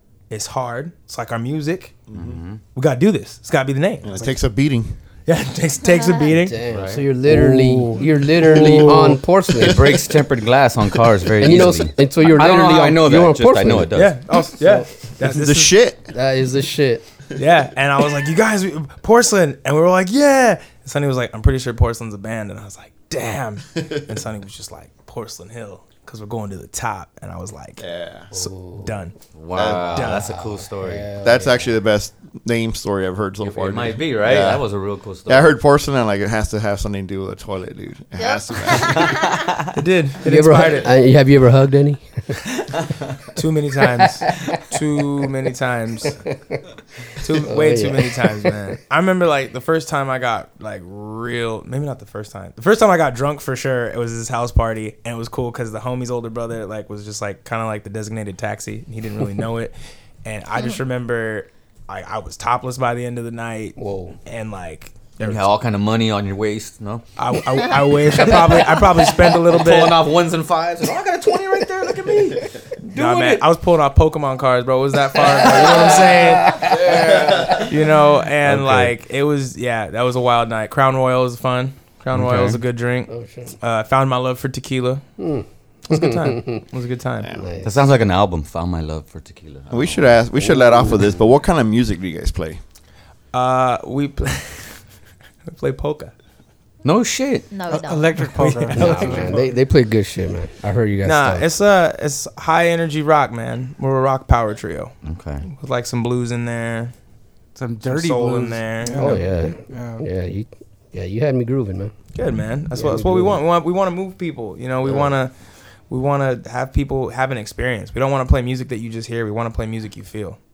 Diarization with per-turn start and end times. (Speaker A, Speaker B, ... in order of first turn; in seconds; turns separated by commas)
Speaker A: 0.3-2.0, Speaker B: 2.1-2.4, Speaker C: 2.1-2.6, Speaker A: 2.7-4.4, Speaker B: 4.0-5.0, Speaker A: 5.2-6.6, Speaker D: 6.3-9.8, Speaker C: 6.7-7.0, Speaker A: 7.3-9.2, Speaker B: 9.5-10.1, Speaker C: 9.6-14.1, Speaker D: 11.4-13.9, Speaker A: 13.9-15.8, Speaker D: 14.6-14.9, Speaker B: 15.2-16.1, Speaker D: 16.1-17.1, Speaker A: 17.4-27.8, Speaker B: 27.8-28.3, Speaker D: 28.3-28.9, Speaker A: 28.3-29.1, Speaker C: 29.3-31.1, Speaker B: 29.5-30.1, Speaker A: 29.9-30.3, Speaker D: 30.2-31.7, Speaker B: 31.2-34.6, Speaker C: 33.4-35.5, Speaker B: 35.3-39.2, Speaker E: 38.2-39.5, Speaker A: 39.7-40.9, Speaker D: 40.2-42.4, Speaker A: 43.4-46.2, Speaker A: 47.2-65.5, Speaker D: 47.3-48.6, Speaker D: 63.8-64.2, Speaker C: 65.2-67.0, Speaker A: 67.2-70.0, Speaker C: 68.1-73.4, Speaker A: 72.9-76.8, Speaker D: 75.3-77.4, Speaker C: 76.6-77.7, Speaker A: 77.5-85.0, Speaker C: 78.5-78.9, Speaker C: 82.1-82.6, Speaker D: 83.1-83.5, Speaker D: 85.2-86.6, Speaker A: 85.9-87.3, Speaker B: 87.2-87.5, Speaker D: 87.3-87.7, Speaker C: 87.6-90.2, Speaker B: 89.7-92.6, Speaker D: 90.3-91.3, Speaker A: 93.3-94.8, Speaker A: 95.5-96.1, Speaker C: 96.8-97.5, Speaker E: 97.5-98.4, Speaker F: 97.7-99.4, Speaker A: 98.4-99.3, Speaker D: 98.7-101.5, Speaker A: 101.0-104.9, Speaker C: 105.0-105.5, Speaker A: 105.5-106.9, Speaker F: 107.5-110.0, Speaker A: 107.8-109.2, Speaker D: 108.9-111.9, Speaker A: 112.1-115.3, Speaker D: 112.7-113.4, Speaker D: 114.8-115.1, Speaker A: 115.9-120.4